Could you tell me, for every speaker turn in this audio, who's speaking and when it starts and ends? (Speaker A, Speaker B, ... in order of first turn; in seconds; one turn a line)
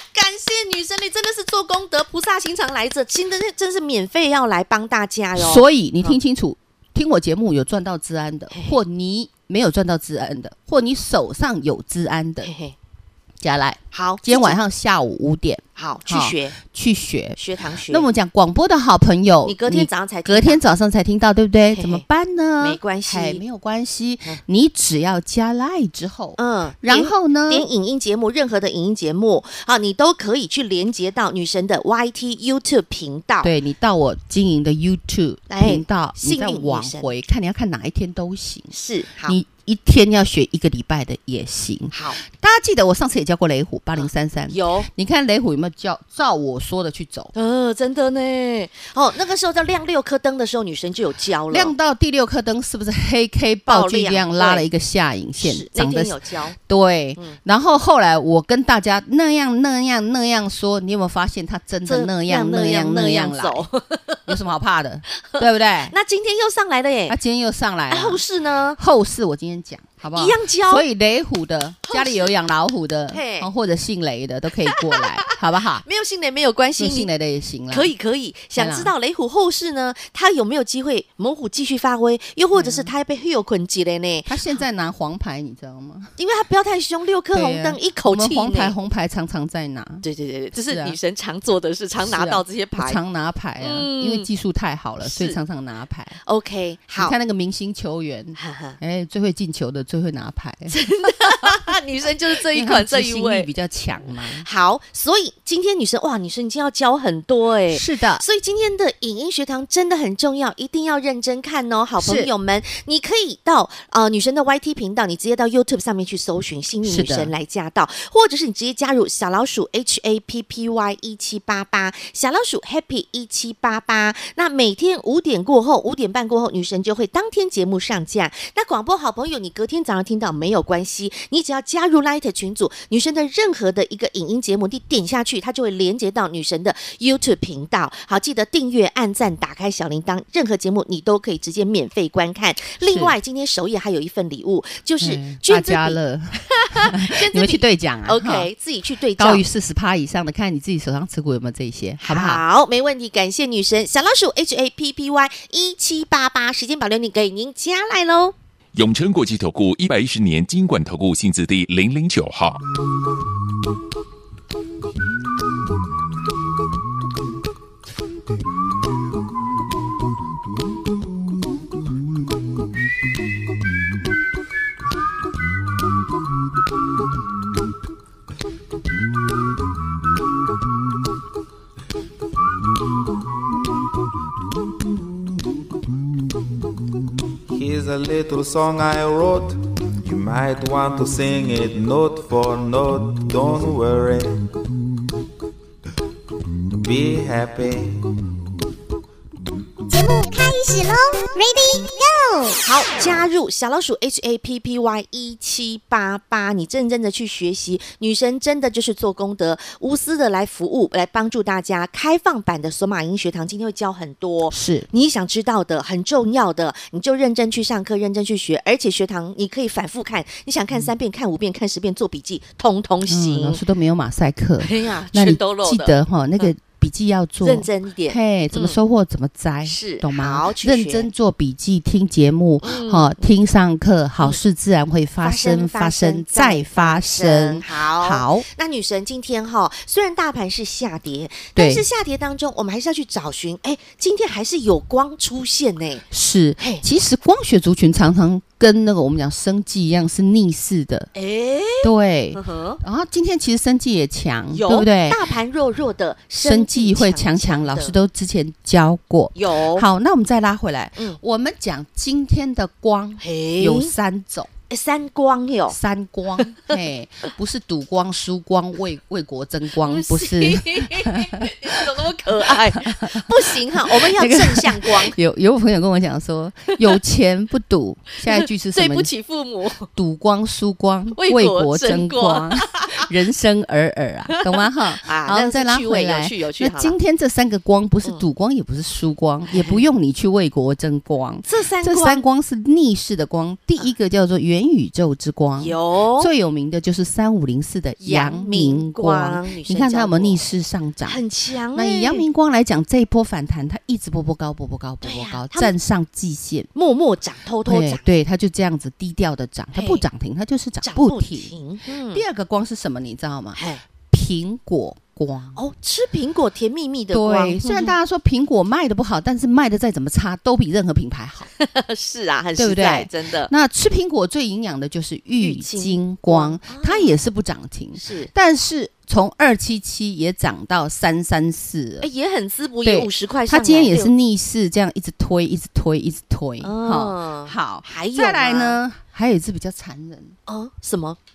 Speaker A: 0.1-6.2
Speaker B: 5.3-12.5
Speaker A: 12.4-12.7
Speaker B: 13.4-27.7
Speaker A: 13.9-14.6
Speaker A: 15.8-16.6
Speaker A: 17.4-18.1
Speaker A: 19.4-20.6
Speaker A: 21.7-22.0
Speaker A: 22.6-23.4
Speaker A: 26.4-33.5
Speaker B: 33.4-38.7
Speaker A: 35.5-37.1
Speaker A: 38.7-39.4
Speaker B: 39.2-47.3
Speaker A: 41.9-42.2
Speaker A: 44.0-44.9
Speaker A: 47.3-51.7
Speaker B: 51.5-63.7
Speaker A: 53.7-54.7
Speaker A: 55.4-56.6
Speaker A: 61.9-64.2
Speaker B: 64.3-65.9
Speaker A: 65.2-67.2
Speaker B: 67.1-68.2
Speaker A: 67.9-68.8
Speaker B: 68.8-75.8
Speaker A: 70.1-70.8
Speaker A: 71.9-72.3
Speaker A: 73.1-73.5
Speaker A: 74.7-77.1
Speaker B: 76.8-77.9
Speaker A: 77.7-84.4
Speaker B: 78.5-78.9
Speaker B: 82.5-82.9
Speaker B: 84.3-86.1
Speaker A: 86.2-88.7
Speaker B: 87.3-91.0
Speaker A: 90.0-93.0
Speaker B: 92.0-96.2
Speaker A: 93.6-94.3
Speaker A: 95.0-95.4
Speaker A: 96.2-97.1
Speaker B: 97.0-100.8
Speaker A: 98.3-98.8
Speaker A: 100.7-103.5
Speaker B: 102.3-104.5
Speaker A: 104.4-149.4
Speaker B: 107.7-108.2
Speaker B: 112.0-112.3
Speaker B: 116.8-117.3
Speaker B: 142.8-143.1
Speaker B: 145.0-148.5
Speaker B: 149.2-152.4
Speaker A: 152.0-158.3
Speaker C: 158.7-162.6
Speaker D: 187.5-194.6
Speaker D: 196.7-198.3
Speaker E: 199.9-202.6
Speaker A: 202.6-223.6
Speaker B: 214.5-214.9
Speaker B: 223.1-238.4
Speaker A: 224.6-226.5
Speaker A: 227.4-228.8
Speaker A: 229.6-231.1
Speaker A: 232.6-233.2
Speaker A: 235.2-246.0
Speaker B: 241.6-241.8
Speaker B: 246.1-251.1
Speaker A: 246.6-246.8
Speaker A: 251.1-252.8
Speaker B: 251.8-255.2
Speaker A: 254.5-258.0
Speaker B: 256.4-264.5
Speaker A: 259.3-259.9
Speaker A: 263.2-263.9
Speaker A: 264.7-265.8
Speaker B: 265.7-279.1
Speaker A: 266.4-266.8
Speaker A: 269.7-275.1
Speaker A: 276.7-277.0
Speaker A: 278.3-279.9
Speaker B: 279.9-301.2
Speaker A: 281.1-283.1
Speaker A: 284.3-286.9
Speaker A: 289.5-289.8
Speaker A: 291.4-292.2
Speaker A: 295.6-296.3
Speaker A: 298.0-300.4
Speaker A: 301.0-302.2
Speaker B: 301.7-306.7
Speaker A: 305.0-305.7
Speaker A: 306.7-308.1
Speaker B: 307.6-311.5
Speaker A: 309.7-310.0
Speaker A: 310.8-312.2
Speaker B: 312.1-315.6
Speaker A: 313.5-313.8
Speaker A: 315.6-317.9
Speaker B: 317.1-321.5
Speaker A: 321.6-323.5
Speaker B: 322.6-332.1
Speaker A: 325.4-327.1
Speaker A: 327.9-328.3
Speaker A: 332.0-334.1
Speaker B: 332.8-340.3
Speaker A: 336.6-338.8
Speaker A: 340.5-341.2